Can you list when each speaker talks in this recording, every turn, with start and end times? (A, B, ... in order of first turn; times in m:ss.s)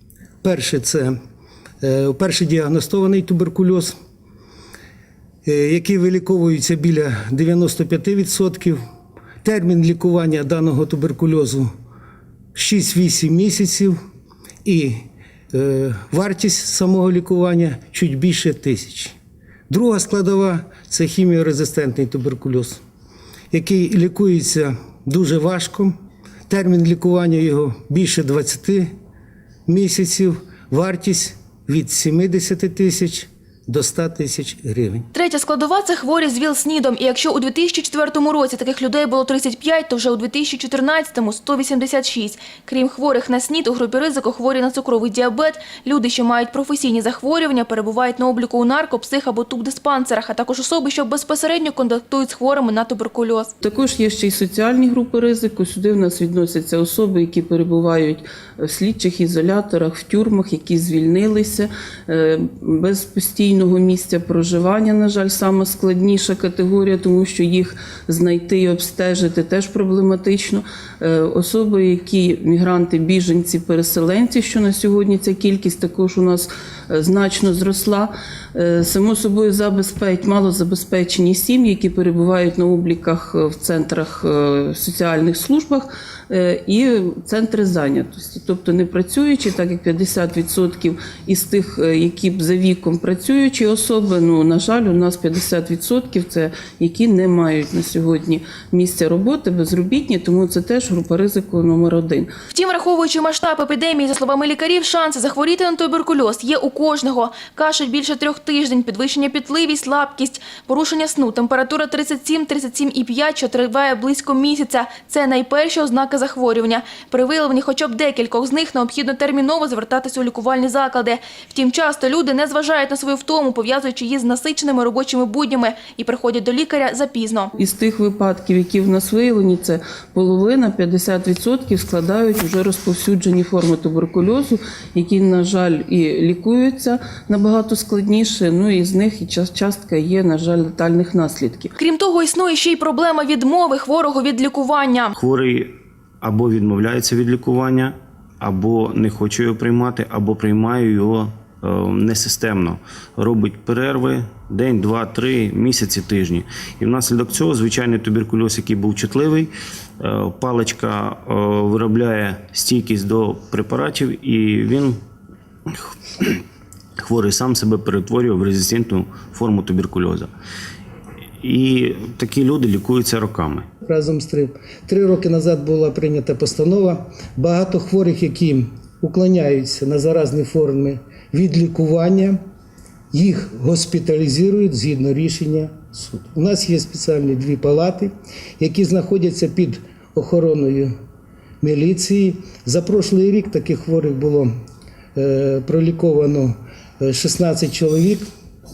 0:00.4-0:01.2 A
0:01.8-0:03.9 A
0:05.4-0:08.8 A
0:09.4-0:11.7 A
0:12.6-0:14.0 A
0:14.6-0:15.0 A
0:15.5-0:19.2 A
0:19.7-0:22.8 A
0:23.5-0:25.9 A
0:26.5-0:28.9 A
0:29.7-0:35.1 A
0:35.1-0:53.5 B
0:53.6-1:42.3 C
1:42.5-2:07.5 B
2:07.6-2:21.7 C
2:21.8-2:25.2 B
2:25.2-2:45.0 D
2:47.0-2:50.3 D
2:51.4-2:53.7 D
2:53.8-3:02.4 A
3:03.1-3:10.9 A
3:11.6-3:14.5 A
3:15.2-3:18.2 A